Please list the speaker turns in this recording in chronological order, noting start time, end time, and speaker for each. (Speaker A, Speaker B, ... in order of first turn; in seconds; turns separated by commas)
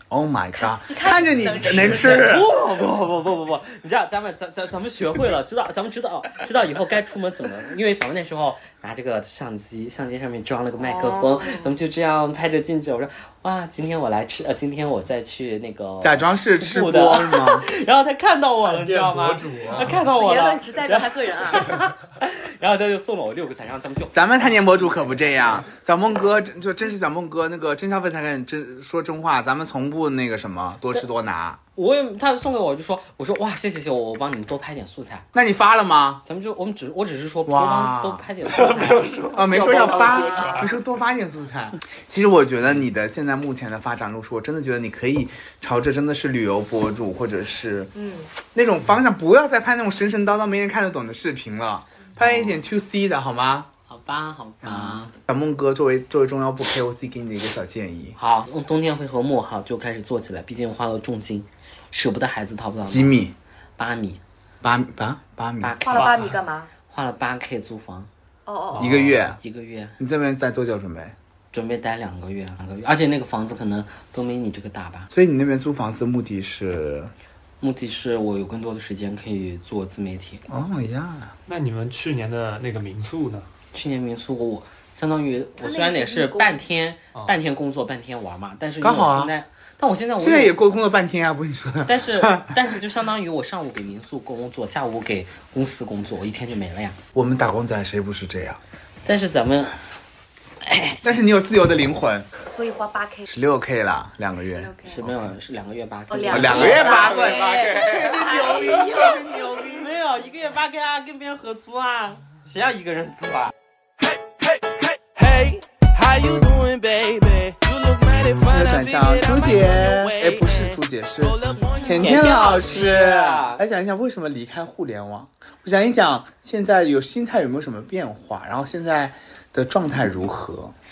Speaker A: 0.1-2.5, Speaker B: 0.5-2.3, Speaker C: 1.6-25.6, Speaker B: 10.8-11.7, Speaker A: 16.0-17.7, Speaker D: 18.6-20.0, Speaker B: 19.9-21.8, Speaker A: 24.1-31.6, Speaker C: 31.8-35.3, Speaker A: 35.3-36.2, Speaker C: 36.2-40.8, Speaker A: 37.5-38.2, Speaker D: 38.5-40.7, Speaker A: 39.3-53.7, Speaker B: 47.9-48.3, Speaker C: 52.2-52.6, Speaker C: 53.9-55.1, Speaker A: 54.6-58.2, Speaker C: 58.2-63.2, Speaker A: 62.9-63.3, Speaker C: 63.8-64.2, Speaker A: 64.6-65.8, Speaker C: 65.6-66.3, Speaker B: 65.8-66.7, Speaker C: 66.9-68.1, Speaker B: 68.5-68.9, Speaker A: 68.8-69.4, Speaker C: 68.8-70.0, Speaker A: 70.0-71.1, Speaker C: 71.5-75.1, Speaker A: 75.1-77.1, Speaker C: 77.6-80.4, Speaker A: 80.5-81.3, Speaker D: 81.5-83.5, Speaker C: 83.7-90.6, Speaker B: 85.6-86.6, Speaker A: 88.8-89.3, Speaker A: 90.2-92.5, Speaker C: 91.8-97.0, Speaker A: 97.1-98.6, Speaker C: 99.0-99.7, Speaker C: 100.6-101.0, Speaker A: 101.0-102.3, Speaker B: 102.5-103.3, Speaker A: 103.3-104.7, Speaker B: 104.5-105.0, Speaker C: 104.8-113.5, Speaker B: 106.1-109.2, Speaker A: 106.3-109.9, Speaker E: 114.0-122.4, Speaker A: 118.5-130.7, Speaker B: 121.7-122.1, Speaker C: 121.9-123.6